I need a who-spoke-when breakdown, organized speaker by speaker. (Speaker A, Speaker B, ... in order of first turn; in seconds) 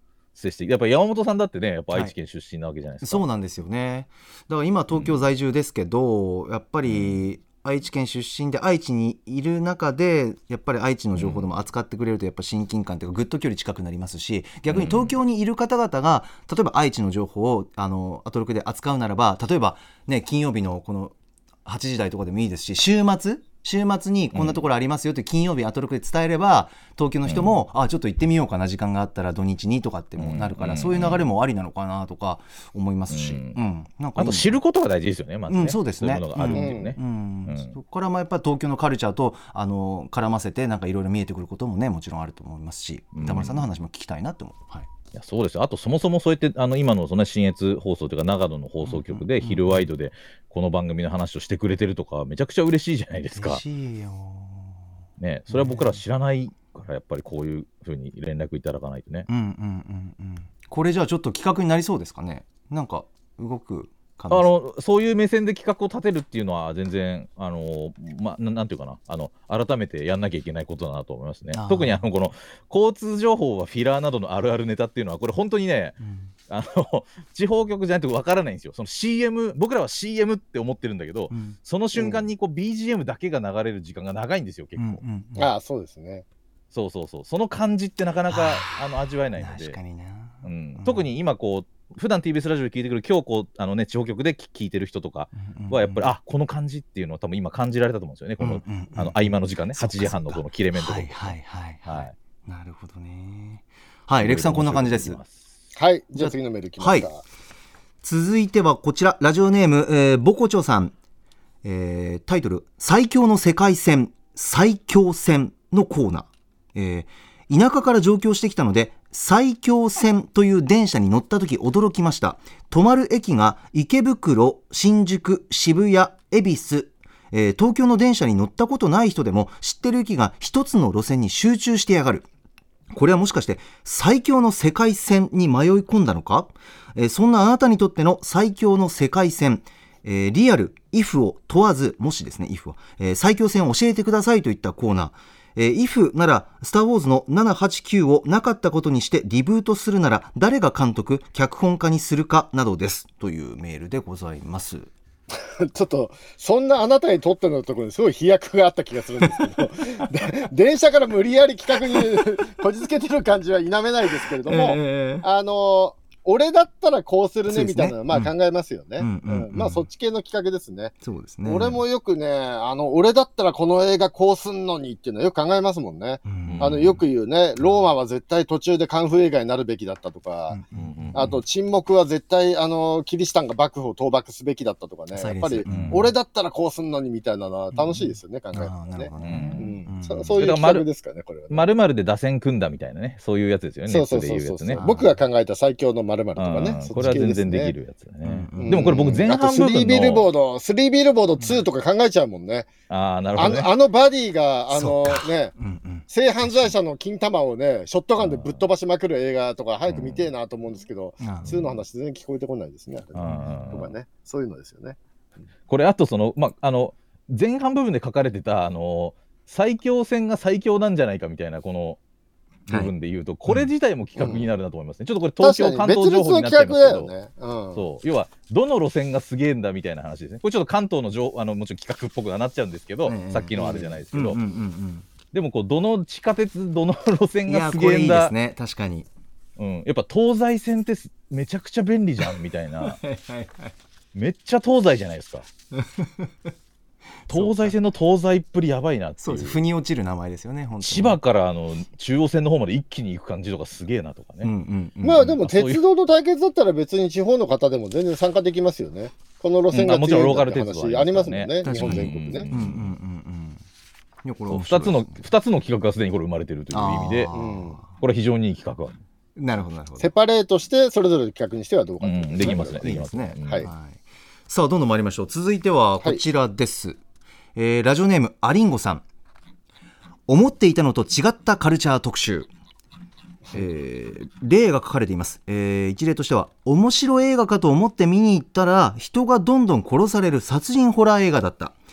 Speaker A: 0.3-3.2, 4.9-5.3, 6.8-7.2, 11.2-11.5, 14.7-15.2, 24.3-24.6, 27.3-27.6, 30.2-31.3, 33.1-33.6, 34.2-37.8, 43.1-43.6, 45.1-53.6, 55.2-59.3, 64.3-76.0, 76.5-85.0, 86.7-89.8, 90.4-101.4, 101.9-102.1, 104.2-105.5, 176.5-176.9, 180.8-181.3, 185.7-186.1, 189.2-189.7, 190.4-190.9, 191.5-194.8, 196.4-200.3, 202.9-203.7, 208.2-208.6, 209.9-210.3, 213.2-213.9, 215.7-222.0, 222.7-227.1, 227.8-234.4, 235.3-238.3, 239.6-243.0, 244.1-245.5, 247.3-249.6, 250.8-254.5, 255.3-255.8, 259.7-262.9, 264.5-267.3, 267.9-269.0, 272.0-273.7
Speaker B: 3.0-34.6, 35.5-44.9, 48.8-49.9, 53.4-54.9, 55.5-56.0, 59.3-64.5, 71.5-72.1, 76.0-76.3, 81.3-81.6, 84.8-85.5, 88.3-91.1, 95.4-96.1, 98.4-105.2, 106.2-107.1, 108.0-110.9, 111.6-132.3, 132.9-154.9, 159.2-159.5, 164.4-165.3, 167.5-168.3, 169.0-169.9, 171.0-171.8, 176.2-177.0, 177.6-177.9, 180.5-181.4, 185.1-186.1, 187.7-190.4, 194.8-195.2, 198.2-199.2, 201.4-201.7, 204.7-206.8, 211.2-211.8, 213.3-213.5, 233.1-235.1, 237.5-239.1, 242.2-243.8, 245.7-246.5, 247.2-247.8, 249.2-251.2, 254.4-255.3, 261.6-263.6, 264.2-265.2, 266.7-267.9, 269.4-270.1, 272.4-277.0, 277.6-279.0, 280.3-282.5, 283.5-291.8
Speaker C: 36.5-36.9, 82.0-82.3, 85.4-86.2, 105.8-107.2, 155.6-180.6, 181.1-191.6, 193.9-197.7, 198.6-202.7, 203.3-205.5, 206.1-215.0, 224.2-224.5, 225.4-227.8, 255.0-262.5, 267.3-267.8, 270.0-273.7